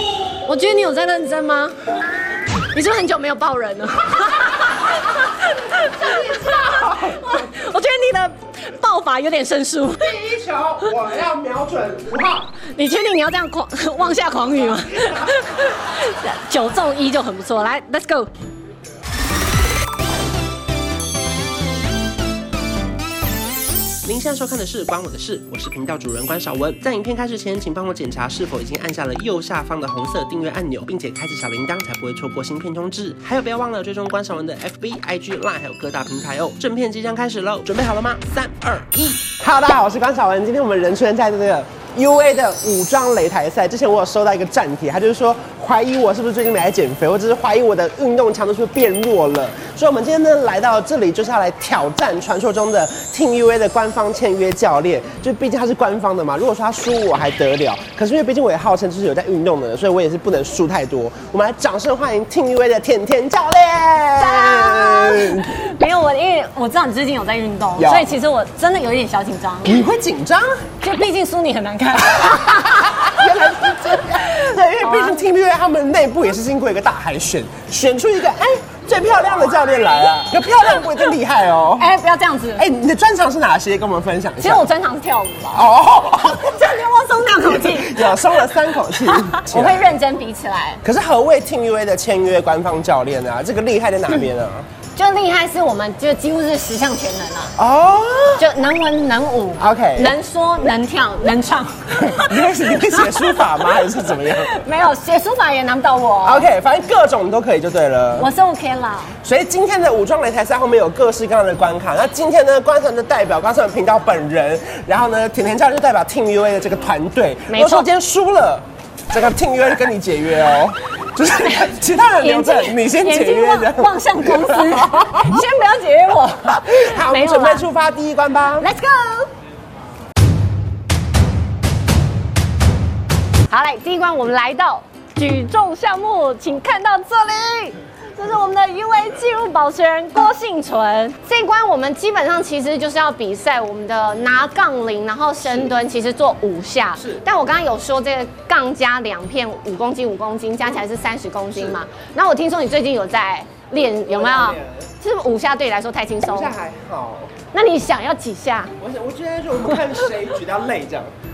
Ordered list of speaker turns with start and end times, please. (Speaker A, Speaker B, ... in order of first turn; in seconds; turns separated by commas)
Speaker A: 0.4-1.8, Speaker A: 2.5-10.2, Speaker B: 6.0-7.2, Speaker B: 10.0-12.5, Speaker A: 12.7-18.3, Speaker B: 15.0-15.3, Speaker B: 24.0-65.5, Speaker A: 64.2-69.8, Speaker B: 67.8-68.1, Speaker B: 69.6-70.7, Speaker A: 70.8-75.3, Speaker B: 72.2-81.9, Speaker A: 79.3-81.1, Speaker A: 81.8-82.7, Speaker B: 82.6-84.6, Speaker A: 84.4-90.8, Speaker B: 85.5-86.6, Speaker B: 87.4-90.0, Speaker B: 90.8-94.7, Speaker A: 95.0-97.5, Speaker B: 97.6-98.4, Speaker A: 98.4-106.5, Speaker B: 99.6-100.2, Speaker B: 102.1-104.6, Speaker B: 106.2-108.3, Speaker A: 108.2-109.1, Speaker B: 109.2-125.4, Speaker A: 117.5-117.9, Speaker A: 121.2-127.7, Speaker B: 126.5-128.7, Speaker A: 128.6-129.3, Speaker A: 133.5-156.6, Speaker B: 145.4-145.7, Speaker B: 147.0-147.2, Speaker B: 153.8-154.9, Speaker B: 156.3-157.3, Speaker A: 157.5-158.7, Speaker B: 158.8-161.1